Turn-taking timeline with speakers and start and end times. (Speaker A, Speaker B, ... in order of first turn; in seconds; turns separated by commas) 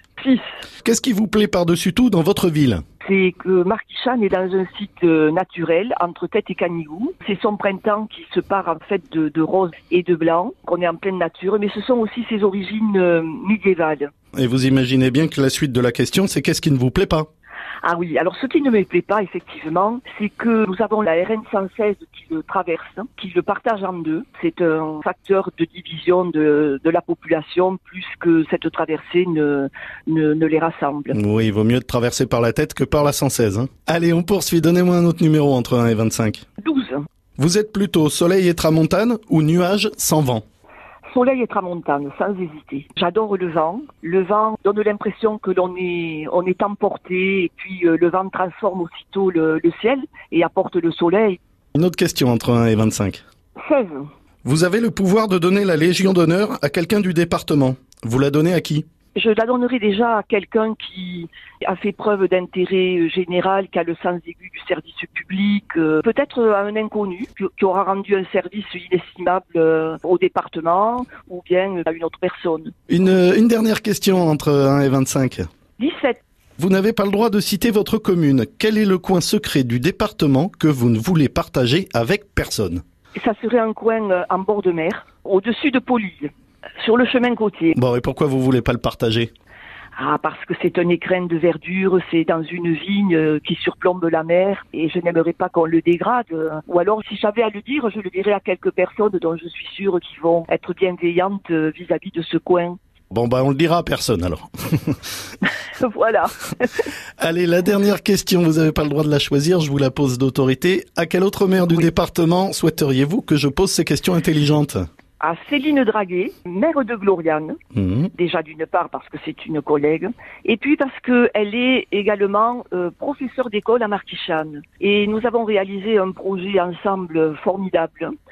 Speaker A: 0.2-0.5, Speaker B: 0.8-2.8, Speaker A: 3.0-14.1, Speaker B: 14.3-17.3, Speaker A: 17.8-31.1, Speaker B: 31.1-36.4, Speaker A: 36.6-37.0, Speaker B: 37.4-40.4, Speaker A: 41.0-51.4, Speaker B: 51.7-53.2, Speaker A: 53.6-54.1, Speaker B: 54.4-58.8, Speaker A: 59.1-72.7, Speaker B: 72.9-75.5, Speaker A: 75.8-76.2, Speaker B: 76.6-82.8, Speaker A: 83.1-87.8, Speaker B: 87.7-89.3, Speaker A: 90.0-102.8, Speaker B: 103.1-105.0, Speaker A: 105.8-106.9, Speaker B: 107.2-114.8, Speaker A: 115.2-117.6, Speaker B: 117.8-118.1, Speaker A: 118.2-128.1